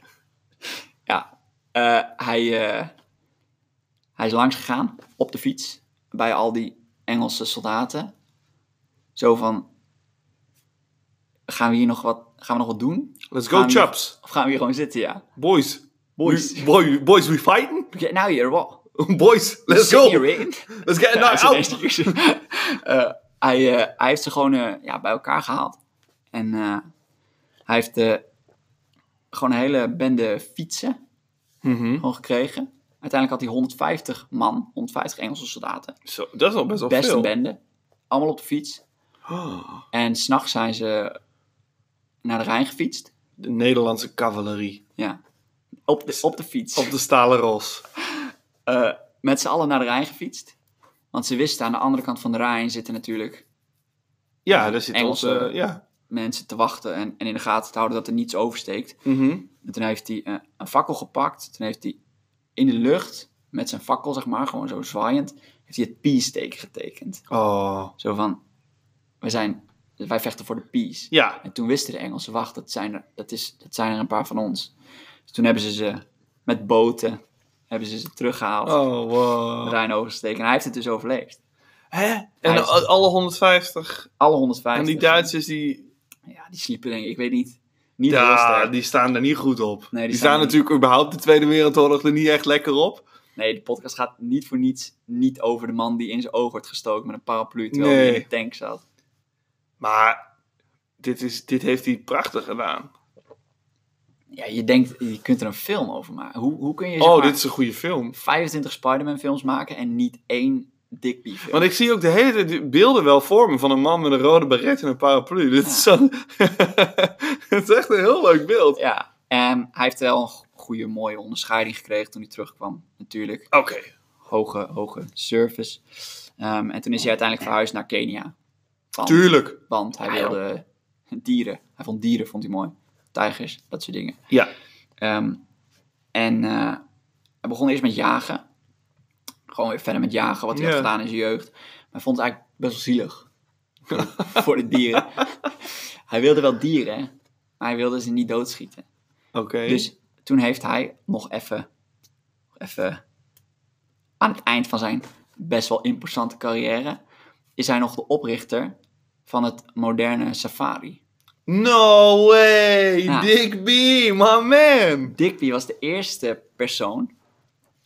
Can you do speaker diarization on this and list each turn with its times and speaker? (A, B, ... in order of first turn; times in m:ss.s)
0:01.0-0:02.9 A
0:04.2-0:08.1 A
0:09.2-0:09.7 A
0:11.5-0:15.2 A
0:13.3-0:14.1 B
0:15.4-0:17.9 B
0:16.2-0:16.7 A
0:17.9-0:18.8 A
0:19.0-0:22.2 B
0:19.7-0:25.8 A
0:26.3-0:26.8 A
0:27.7-0:28.2 A
0:29.3-0:31.0 A
0:31.6-0:32.0 B
0:32.0-0:36.0 A
0:36.0-0:37.3 B
0:36.9-0:37.6 A
0:38.1-0:38.8 A
0:39.3-0:39.8 B
0:39.9-0:41.2 A
0:42.2-0:43.1 A
0:43.4-0:44.8 B
0:45.9-0:46.9 A
0:46.8-0:47.8 B
0:48.7-0:50.5 A
0:51.1-0:53.4 A
0:54.4-0:55.8 B
0:54.5-0:55.5 A
0:56.1-0:59.0 A
0:59.0-0:59.4 B
0:59.6-1:02.0 A
1:02.6-1:07.2 A
1:07.3-1:07.9 B
1:08.0-1:08.4 A
1:09.2-1:14.7 A
1:11.1-1:11.4 B
1:15.3-1:18.9 A
1:18.6-1:19.8 B
1:19.6-1:21.4 A
1:21.9-1:24.1 B
1:22.4-1:22.8 A
1:24.2-1:25.3 A
1:24.7-1:25.9 B
1:26.3-1:28.7 A
1:28.1-1:33.0 B
1:29.9-1:30.6 A
1:33.4-1:38.8 A
1:37.7-1:38.3 B
1:39.8-1:40.2 B
1:41.0-1:42.9 B
1:44.3-1:47.4 A
1:47.0-1:48.1 B
1:48.1-1:51.7 A
1:51.5-1:58.8 B
1:55.6-1:55.9 A
1:58.8-2:03.5 A
2:03.5-2:03.9 B
2:04.2-2:05.8 A
2:06.4-2:08.3 A
2:08.9-2:14.2 A
2:09.0-2:10.4 B
2:15.0-2:15.4 A
2:16.1-2:16.8 A
2:17.4-2:18.4 A
2:19.5-2:23.3 A
2:20.5-2:20.9 B
2:23.9-2:24.4 B
2:23.9-2:28.8 A
2:29.3-2:29.9 B
2:29.6-2:31.7 A
2:32.6-2:33.0 A
2:34.2-2:37.0 A
2:37.6-2:41.0 A
2:41.5-2:45.2 B
2:45.1-2:47.1 A